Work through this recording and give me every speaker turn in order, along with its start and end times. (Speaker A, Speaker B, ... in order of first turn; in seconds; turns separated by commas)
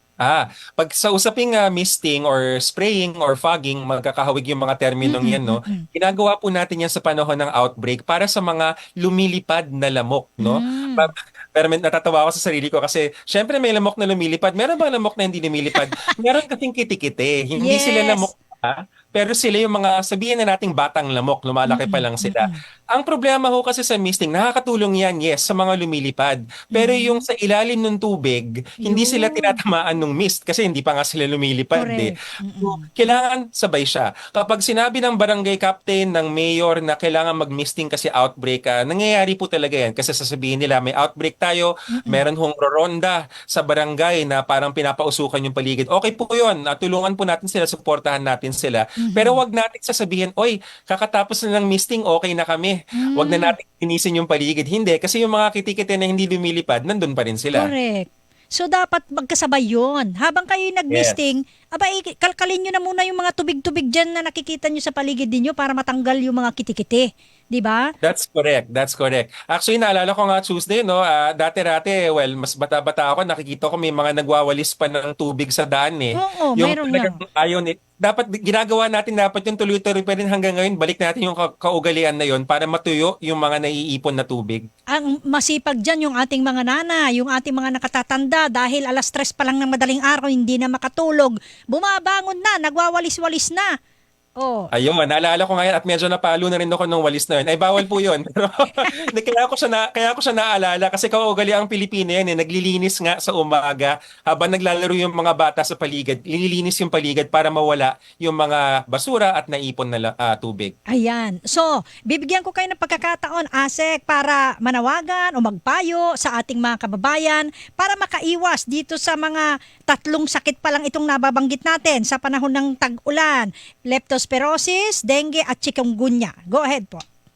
Speaker A: 0.2-57.7, Speaker B: 5.0-5.8, Speaker B: 10.4-11.1, Speaker B: 17.6-18.3, Speaker B: 21.6-22.6, Speaker B: 26.7-27.2, Speaker B: 28.8-29.6, Speaker B: 31.8-32.9, Speaker B: 41.9-42.2, Speaker B: 49.0-49.4, Speaker B: 53.0-53.5, Speaker B: 57.5-67.9, Speaker A: 60.9-61.2, Speaker A: 68.0-84.6, Speaker B: 76.2-77.2, Speaker B: 84.9-93.7, Speaker B: 94.4-94.7, Speaker A: 94.7-110.7, Speaker B: 98.8-99.1, Speaker B: 110.9-127.0